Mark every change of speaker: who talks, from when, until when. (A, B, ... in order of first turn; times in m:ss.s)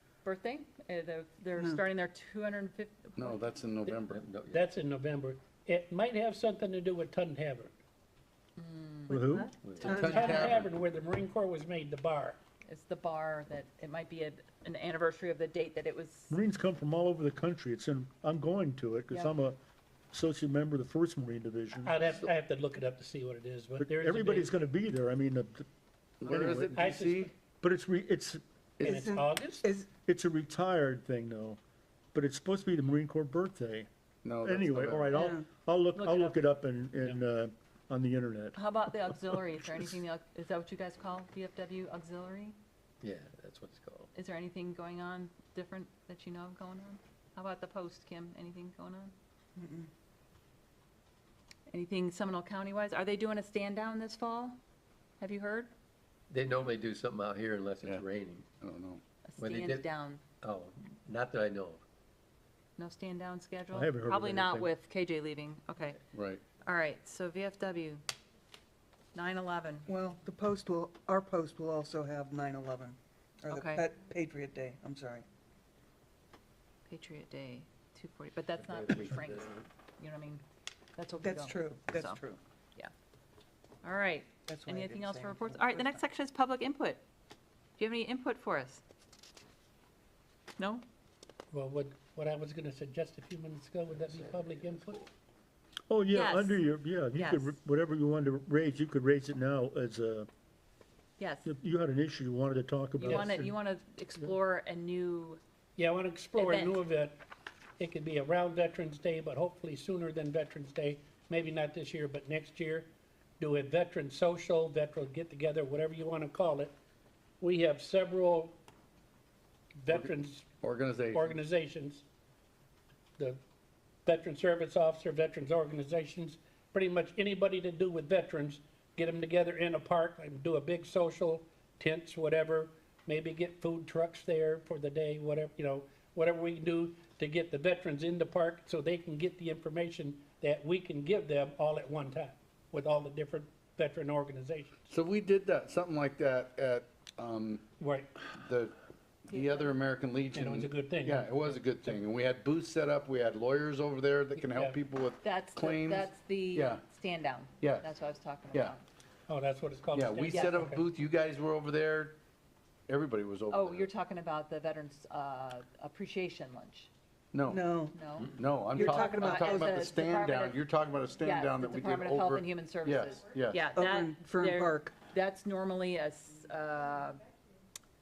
0:00.2-0:03.4 A
0:03.2-0:04.2 B
0:04.1-0:04.7 C
0:04.5-0:07.7 D
0:08.6-0:10.5 A
0:09.1-0:09.5 E
0:09.1-0:10.6 F
0:09.6-0:10.0 C
0:09.8-0:10.6 B
0:10.1-0:12.4 D
0:12.7-0:16.3 A
0:16.3-0:19.6 E
0:20.1-0:22.3 E
0:21.8-0:24.5 D
0:23.8-0:25.7 E
0:26.2-0:27.3 B
0:26.2-0:26.8 E
0:26.7-0:27.3 D
0:27.6-0:28.4 E
0:28.8-0:29.9 F
0:28.8-0:29.6 D
0:30.0-0:31.6 E
0:32.1-0:33.9 E
0:34.2-0:35.1 B
0:34.4-0:38.6 E
0:35.1-0:35.5 F
0:36.0-0:36.4 A
0:38.5-0:42.6 A
0:43.0-0:44.1 C
0:44.1-0:49.1 A
0:49.6-0:49.9 F
0:51.7-0:54.6 A
0:55.2-0:55.7 A
0:56.3-0:58.5 C
0:58.6-0:59.0 B
0:59.2-1:00.2 A
0:59.4-0:59.9 C
1:00.4-1:01.8 C
1:02.8-1:06.0 A
1:03.7-1:04.7 E
1:06.1-1:06.4 B
1:06.6-1:08.0 A
1:09.1-1:09.9 A
1:09.9-1:15.2 F
1:13.5-1:13.8 A
1:16.9-1:20.4 A
1:18.6-1:19.6 C
1:21.0-1:22.2 A
1:21.2-1:22.4 F
1:23.8-1:27.0 A
1:24.5-1:26.0 F
1:27.8-1:28.8 A
1:30.6-1:30.8 A
1:31.5-1:35.0 D
1:34.0-1:34.8 C
1:35.9-1:40.3 E
1:36.1-1:37.6 A
1:41.2-1:41.5 A
1:41.4-1:43.5 E
1:43.0-1:43.3 D
1:43.0-1:45.4 A
1:45.8-1:47.2 D
1:46.4-1:46.8 A
1:47.8-1:56.7 D
1:57.4-1:58.6 D
1:59.8-2:00.5 D
2:00.6-2:01.3 B
2:01.1-2:02.0 D
2:04.0-2:24.8 D
2:24.9-2:27.6 B
2:27.8-2:28.1 D
2:28.3-2:28.7 B
2:29.3-2:36.8 B
2:29.3-2:29.7 A
2:30.3-2:31.6 D
2:34.5-2:34.8 D
2:35.2-2:38.8 A
2:37.6-2:37.9 B
2:39.3-2:40.8 D
2:39.9-2:42.2 B
2:40.3-2:40.6 A
2:42.9-2:43.9 B
2:43.5-2:46.9 A
2:47.3-2:47.7 B
2:47.5-2:48.0 F
2:47.9-2:50.6 A
2:48.4-2:53.6 B
2:48.7-2:49.9 F
2:51.2-2:57.3 A
2:53.7-2:55.0 F